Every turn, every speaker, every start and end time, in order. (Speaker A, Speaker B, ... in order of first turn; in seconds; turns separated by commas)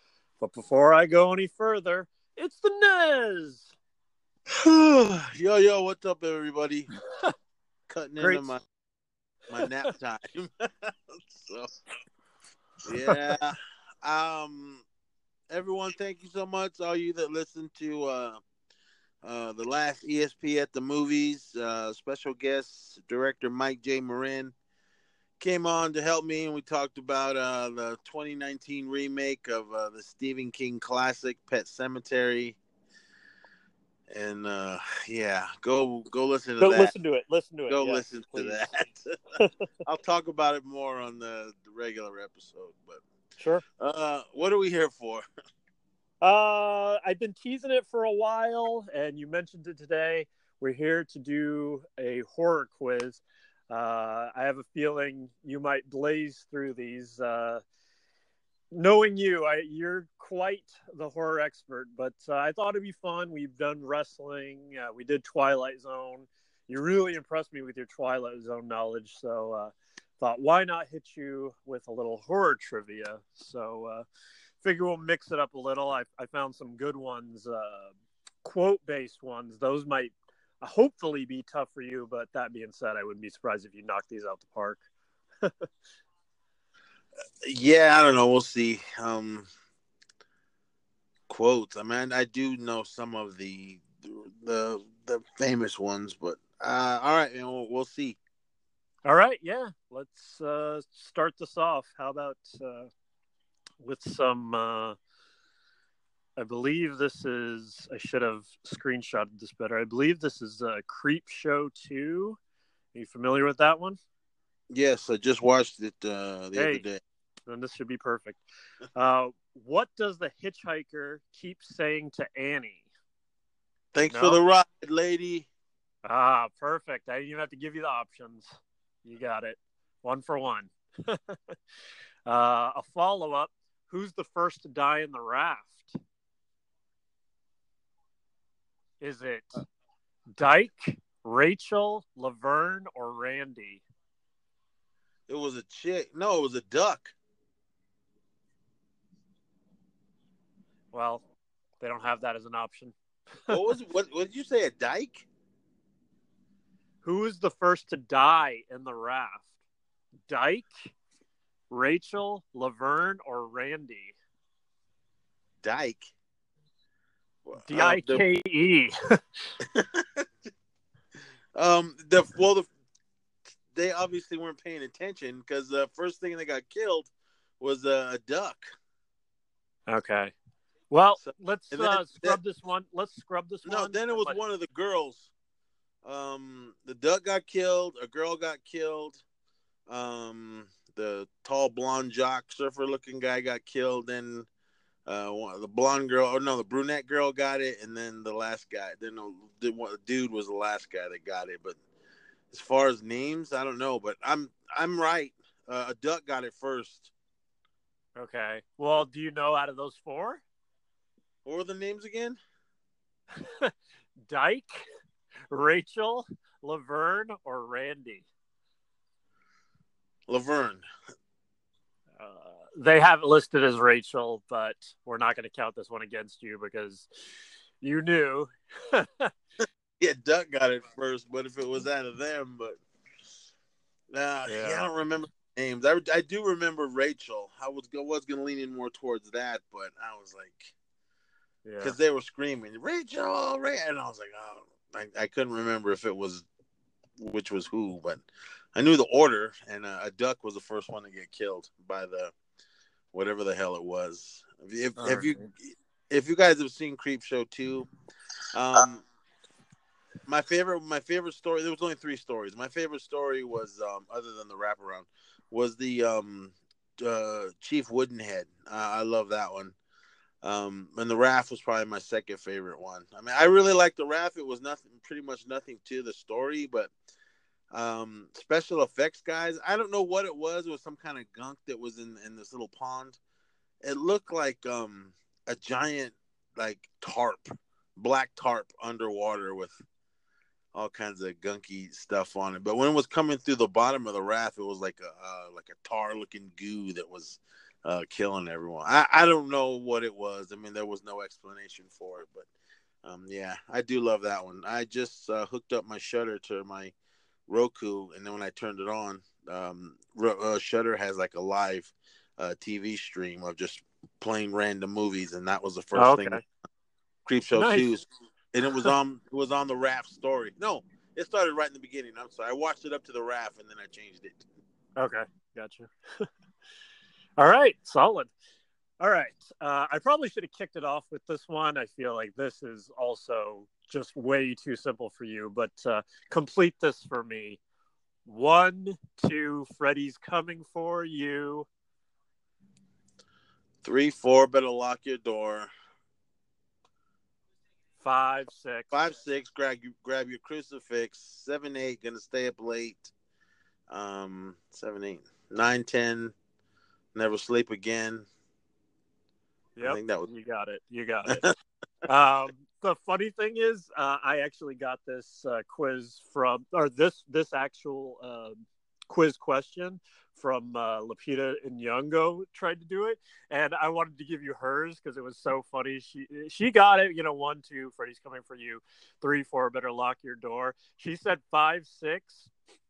Speaker A: 0.4-3.7, Speaker B: 4.5-6.9, Speaker B: 7.9-8.6, Speaker A: 8.2-8.5, Speaker B: 9.5-11.7, Speaker A: 9.6-9.8, Speaker B: 12.8-14.8, Speaker B: 15.5-18.4, Speaker B: 19.2-24.5, Speaker B: 25.4-32.6, Speaker B: 34.1-36.9, Speaker A: 36.6-38.7, Speaker B: 37.7-39.1, Speaker A: 39.4-39.7, Speaker B: 39.9-43.0, Speaker A: 43.4-43.6, Speaker B: 43.8-45.2, Speaker A: 46.2-57.6, Speaker A: 58.7-74.0, Speaker A: 74.6-84.8, Speaker B: 87.4-89.5, Speaker B: 91.3-98.2, Speaker A: 99.0-102.9, Speaker A: 103.8-105.0, Speaker A: 106.4-112.4, Speaker A: 112.9-114.0, Speaker B: 114.7-117.0, Speaker A: 116.5-116.8, Speaker A: 117.5-122.8, Speaker B: 123.9-125.5, Speaker A: 124.0-124.4, Speaker A: 126.0-131.6, Speaker A: 132.2-136.0, Speaker A: 139.0-139.6, Speaker A: 140.4-143.8, Speaker B: 145.3-147.1, Speaker A: 150.9-151.2, Speaker A: 151.8-152.9, Speaker B: 153.5-155.2, Speaker A: 157.0-159.5, Speaker A: 160.3-160.9, Speaker A: 161.7-164.1, Speaker B: 165.6-166.1, Speaker B: 167.4-168.2, Speaker A: 167.6-168.9, Speaker B: 169.7-170.2, Speaker B: 171.5-172.7, Speaker B: 173.7-178.7, Speaker A: 179.9-180.3, Speaker A: 180.9-184.4, Speaker B: 181.2-182.4, Speaker B: 183.6-185.3, Speaker B: 186.0-189.2, Speaker B: 189.9-194.5, Speaker B: 195.1-201.8, Speaker B: 202.5-207.1, Speaker A: 208.2-210.4, Speaker B: 211.4-212.4, Speaker A: 213.4-213.7, Speaker A: 214.2-214.8, Speaker A: 215.5-218.3, Speaker B: 220.3-220.8, Speaker A: 222.2-227.1, Speaker A: 227.8-229.3, Speaker B: 230.0-232.8, Speaker B: 234.1-240.7, Speaker A: 234.5-234.8, Speaker A: 241.7-242.0, Speaker B: 241.8-246.4, Speaker B: 247.2-252.3, Speaker B: 253.1-257.9, Speaker A: 255.0-255.5, Speaker B: 258.5-259.0, Speaker B: 260.2-269.8, Speaker B: 270.4-276.9, Speaker B: 277.7-283.2, Speaker B: 283.8-289.8, Speaker B: 290.7-302.5, Speaker B: 303.0-306.9, Speaker B: 307.5-316.4, Speaker A: 315.9-316.4, Speaker B: 317.2-324.4, Speaker A: 317.5-317.9, Speaker A: 325.0-326.2, Speaker A: 327.4-328.3, Speaker A: 329.0-337.6, Speaker A: 338.2-341.7, Speaker B: 343.8-345.7, Speaker A: 348.0-348.9, Speaker B: 348.9-353.1, Speaker B: 353.9-356.3, Speaker B: 357.1-358.3, Speaker A: 359.8-361.5, Speaker B: 359.8-360.3, Speaker A: 362.1-382.5